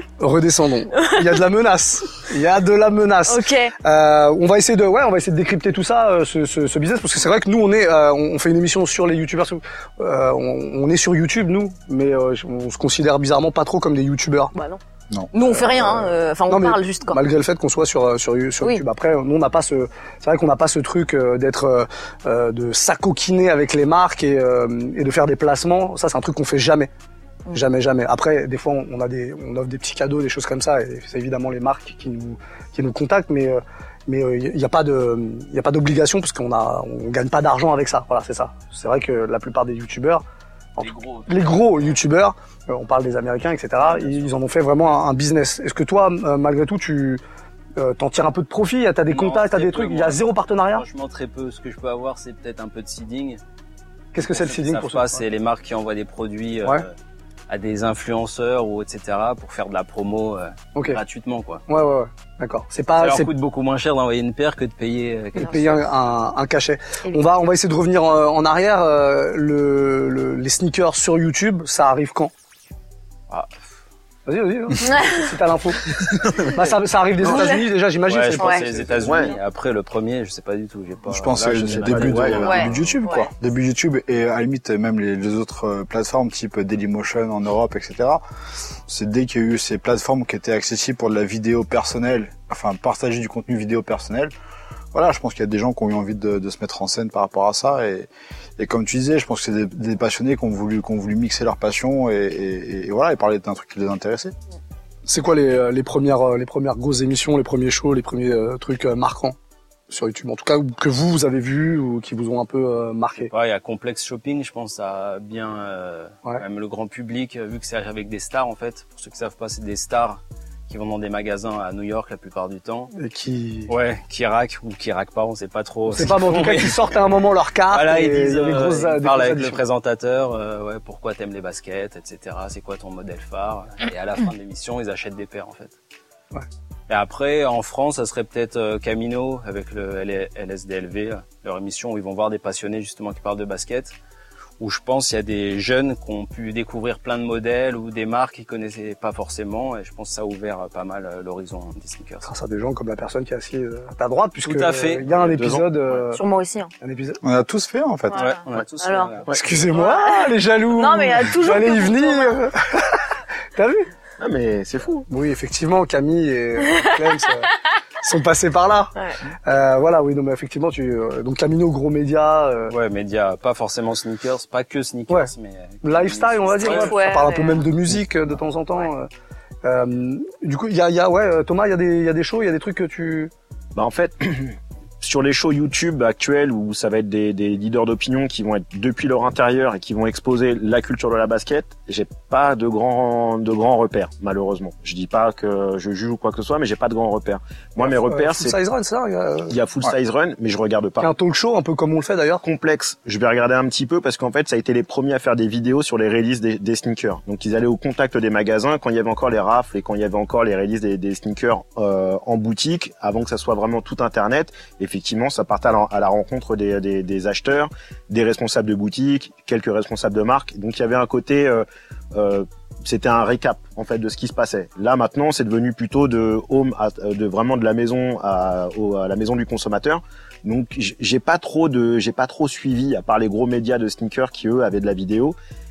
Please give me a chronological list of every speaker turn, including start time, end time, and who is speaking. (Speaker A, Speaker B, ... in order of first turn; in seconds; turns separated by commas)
Speaker A: 0.2-14.5, Speaker B: 0.9-1.4, Speaker B: 3.2-3.7, Speaker B: 14.5-14.8, Speaker B: 15.3-17.2, Speaker A: 15.4-26.9, Speaker A: 27.5-40.2, Speaker A: 40.8-47.2, Speaker C: 40.8-41.6, Speaker C: 43.8-44.3, Speaker A: 47.8-50.8, Speaker C: 49.1-53.4, Speaker A: 54.1-55.2, Speaker C: 54.2-56.9, Speaker C: 57.5-61.6, Speaker A: 61.7-63.3, Speaker C: 63.0-65.8, Speaker A: 65.4-72.3, Speaker C: 73.3-73.6, Speaker A: 74.2-79.3, Speaker B: 74.8-75.3, Speaker B: 77.2-77.6, Speaker C: 78.0-83.0, Speaker D: 79.0-79.3, Speaker E: 81.1-88.2, Speaker D: 81.8-82.6, Speaker B: 82.4-83.2, Speaker E: 88.8-94.3, Speaker E: 94.9-104.3, Speaker A: 105.0-109.3, Speaker A: 109.9-113.3, Speaker C: 113.2-122.9, Speaker A: 122.9-123.7, Speaker C: 123.7-127.0, Speaker A: 125.9-129.6, Speaker C: 127.7-135.8, Speaker C: 136.9-143.9, Speaker C: 144.6-152.3, Speaker A: 152.2-156.2, Speaker C: 154.4-155.1, Speaker D: 155.1-156.0, Speaker B: 156.1-156.7, Speaker A: 156.8-157.2, Speaker E: 157.2-158.2, Speaker B: 158.1-159.2, Speaker C: 158.1-159.3, Speaker A: 159.3-163.9, Speaker B: 159.7-162.4, Speaker D: 164.2-165.1, Speaker A: 165.1-168.9, Speaker A: 169.4-172.7, Speaker C: 172.7-177.0, Speaker A: 175.8-179.1, Speaker B: 176.6-177.7, Speaker A: 179.6-183.3, Speaker D: 183.8-198.6, Speaker A: 197.8-199.6, Speaker D: 199.5-201.1, Speaker A: 201.0-202.4, Speaker D: 202.4-235.3